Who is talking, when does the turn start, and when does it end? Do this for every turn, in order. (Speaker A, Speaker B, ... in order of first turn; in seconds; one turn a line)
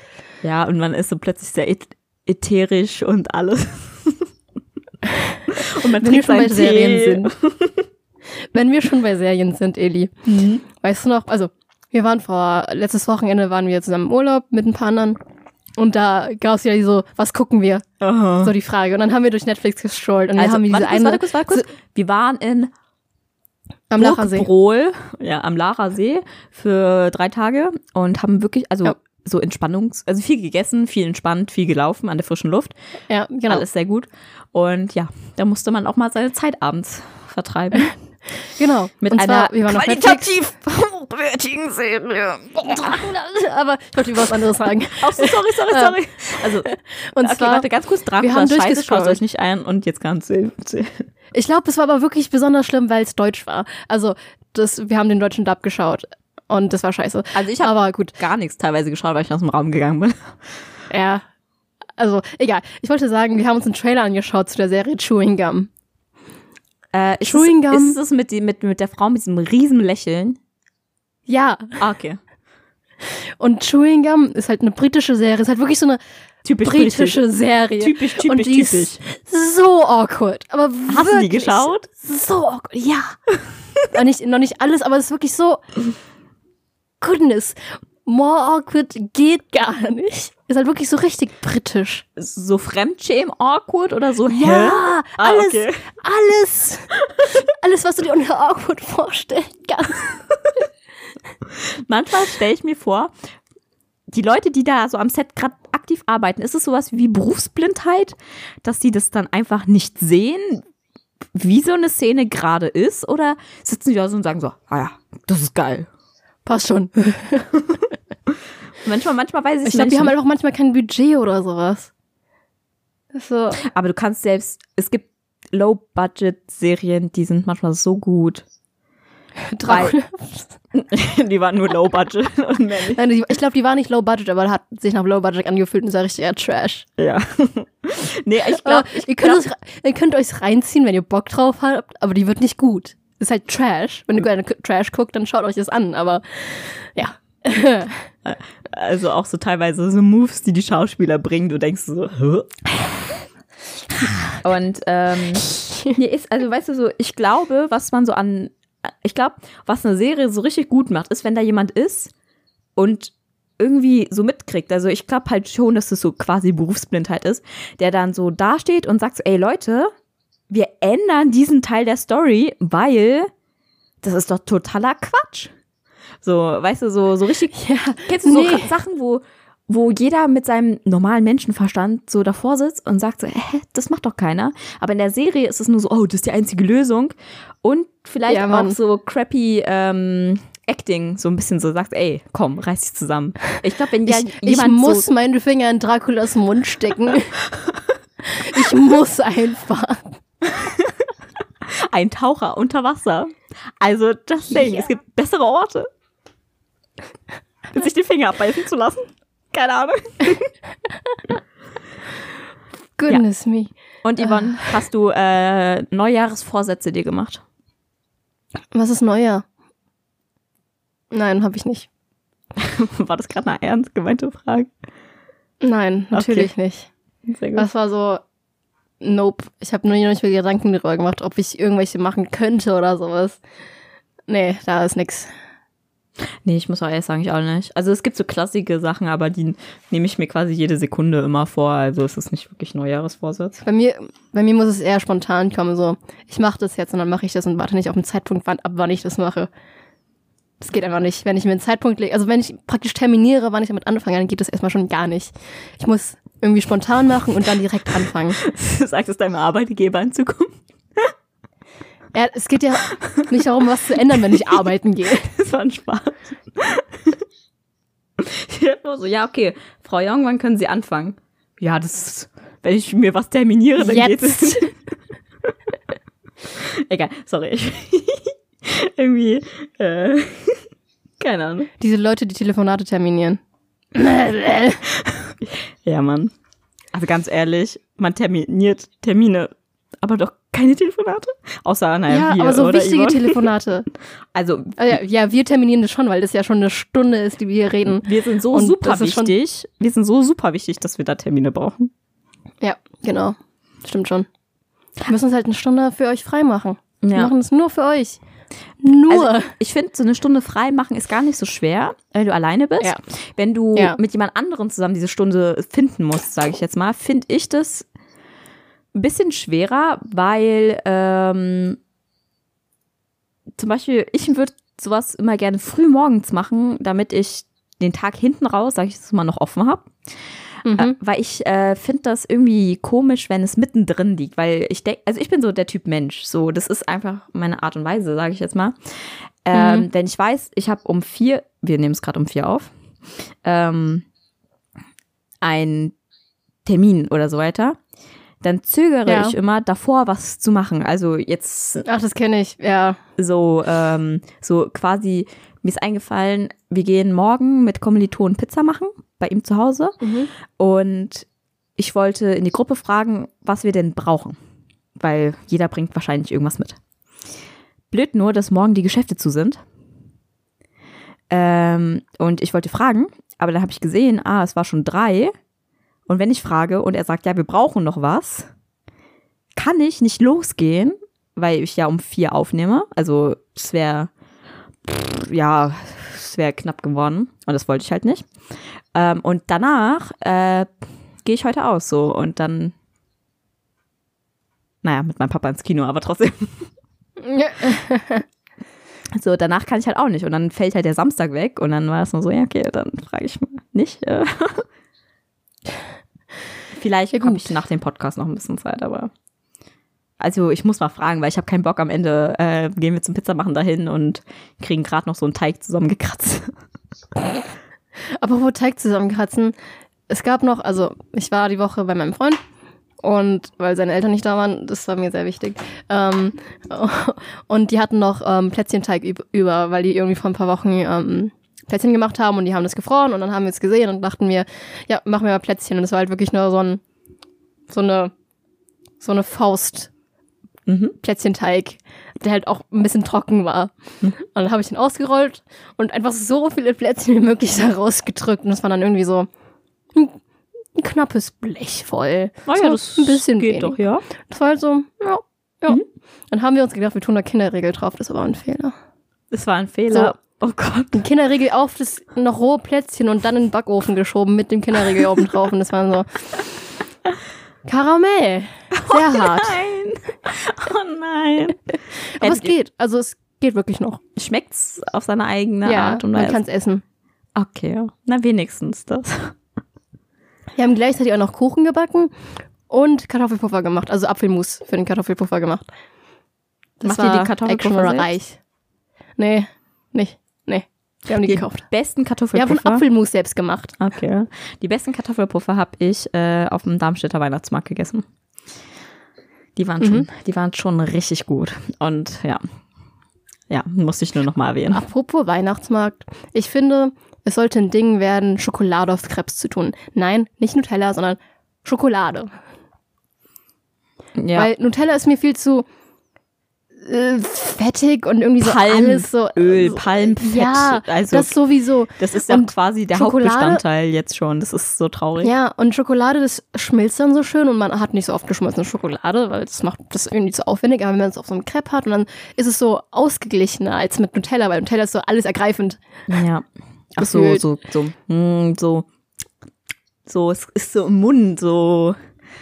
Speaker A: 0.4-4.3
Speaker B: 5.0-5.4
Speaker A: 5.5-7.8
Speaker B: 6.0-7.3
Speaker B: 8.5-10.1
Speaker A: 10.2-10.6
Speaker B: 10.7-15.2
Speaker B: 15.8-17.9
Speaker A: 18.0-18.5
Speaker B: 18.4-21.7
Speaker A: 20.4-22.7
Speaker B: 23.9-24.5
Speaker A: 24.0-32.7
Speaker B: 33.1-33.6
Speaker A: 33.5-37.9
Speaker B: 38.5-40.3
Speaker A: 39.0-43.0
Speaker B: 42.6-47.6
Speaker A: 45.0-46.7
Speaker A: 47.2-51.1
Speaker B: 48.2-49.2
Speaker B: 51.3-58.1
Speaker A: 57.3-60.5
Speaker B: 60.9-61.2
Speaker B: 62.0-65.7
Speaker A: 66.9-70.4
Speaker B: 67.2-68.0
Speaker B: 71.3-71.8
Speaker A: 71.8-72.2
Speaker B: 73.0-76.0
Speaker A: 76.4-77.2
Speaker B: 76.6-83.2
Speaker A: 77.8-79.0
Speaker A: 80.9-81.9
Speaker B: 83.9-85.6
Speaker B: 87.0-92.0
Speaker A: 92.2-95.9
Speaker B: 94.3-100.1
Speaker A: 101.6-103.1
Speaker A: 104.1-110.6
Speaker A: 111.3-115.9
Speaker B: 116.4-117.5
Speaker A: 118.8-120.1
Speaker B: 119.6-121.9
Speaker B: 123.1-123.6
Speaker A: 123.6-128.4
Speaker B: 129.5-130.5
Speaker A: 129.6-129.9
Speaker A: 130.7-133.0
Speaker B: 132.9-136.8
Speaker A: 137.0-139.4
Speaker B: 138.6-148.1
Speaker A: 148.2-152.7
Speaker A: 154.0-162.1
Speaker B: 155.3-155.9
Speaker A: 162.8-169.9
Speaker A: 170.5-173.3
Speaker A: 174.0-175.5
Speaker A: 176.2-195.1
Speaker B: 177.5-178.7
Speaker B: 188.3-188.8
Speaker B: 194.1-197.3
Speaker B: 198.2-200.1
Speaker A: 200.4-200.9
Speaker A: 201.9-205.9
Speaker A: 207.7-210.5
Speaker B: 213.0-214.7
Speaker A: 214.0-217.4
Speaker B: 218.7-219.4
Speaker B: 221.1-221.9
Speaker A: 222.6-224.7
Speaker B: 225.6-226.9
Speaker A: 226.1-226.5
Speaker A: 227.3-227.7
Speaker B: 227.6-228.2
Speaker B: 229.0-233.4
Speaker B: 234.3-235.3
Speaker A: 236.4-243.6
Speaker B: 243.6-249.5
Speaker B: 250.6-258.4
Speaker A: 258.4-261.1
Speaker B: 262.1-265.3
Speaker A: 262.9-263.2
Speaker A: 265.2-267.1
Speaker A: 268.2-274.7
Speaker B: 273.8-274.7
Speaker A: 276.6-280.6
Speaker A: 281.2-281.7
Speaker B: 281.8-283.4
Speaker B: 283.9-284.8
Speaker A: 284.8-286.3
Speaker A: 286.9-293.4
Speaker B: 292.1-293.9
Speaker A: 294.3-294.9
Speaker B: 294.8-299.3
Speaker A: 298.0-301.9
Speaker B: 302.6-304.3
Speaker B: 305.1-308.2
Speaker A: 307.0-307.3
Speaker B: 308.8-309.5
Speaker A: 309.1-317.9
Speaker A: 318.9-321.8
Speaker A: 323.6-329.9
Speaker B: 330.6-330.9
Speaker A: 330.7-342.7
Speaker B: 339.5-339.9
Speaker A: 343.4-344.1
Speaker A: 345.4-345.9
Speaker A: 346.6-347.8
Speaker A: 348.4-351.9
Speaker B: 349.1-349.3
Speaker B: 351.8-353.0
Speaker A: 353.2-360.0
Speaker B: 360.0-360.3
Speaker A: 360.6-361.2
Speaker A: 361.8-364.4
Speaker A: 365.0-366.8
Speaker A: 367.9-369.6
Speaker A: 371.3-375.3
Speaker A: 376.1-378.5
Speaker A: 379.6-384.1
Speaker A: 384.8-388.3
Speaker A: 388.9-390.7
Speaker A: 391.2-392.7
Speaker A: 394.8-396.7
Speaker B: 397.2-398.2
Speaker A: 399.1-404.6
Speaker A: 406.7-409.1
Speaker B: 407.1-407.4
Speaker A: 410.2-416.5
Speaker B: 418.0-419.5
Speaker B: 420.1-422.4
Speaker B: 423.0-436.8
Speaker B: 437.7-438.1
Speaker B: 439.0-439.9
Speaker A: 440.6-440.9
Speaker B: 441.0-449.3
Speaker B: 450.8-453.8
Speaker A: 452.4-454.0
Speaker B: 454.3-458.7
Speaker A: 459.3-461.0
Speaker B: 460.9-466.2
Speaker B: 467.6-469.6
Speaker A: 468.7-471.6
Speaker A: 472.2-472.5
Speaker B: 472.2-474.0
Speaker A: 474.1-476.4
Speaker B: 475.6-476.8
Speaker A: 477.3-479.4
Speaker B: 480.5-482.1
Speaker B: 482.7-485.7
Speaker B: 486.8-488.4
Speaker A: 486.8-488.1
Speaker B: 489.2-491.6
Speaker A: 491.2-492.8
Speaker B: 492.3-493.7
Speaker A: 493.8-498.0
Speaker A: 499.6-502.4
Speaker B: 499.8-500.1
Speaker A: 503.5-504.8
Speaker B: 504.7-512.3
Speaker A: 514.2-514.5
Speaker B: 514.3-515.6
Speaker B: 516.8-523.6
Speaker A: 518.4-521.3
Speaker A: 522.0-525.3
Speaker B: 525.2-535.8
Speaker A: 536.1-536.4
Speaker B: 537.0-537.4
Speaker A: 537.0-538.9
Speaker A: 540.0-542.0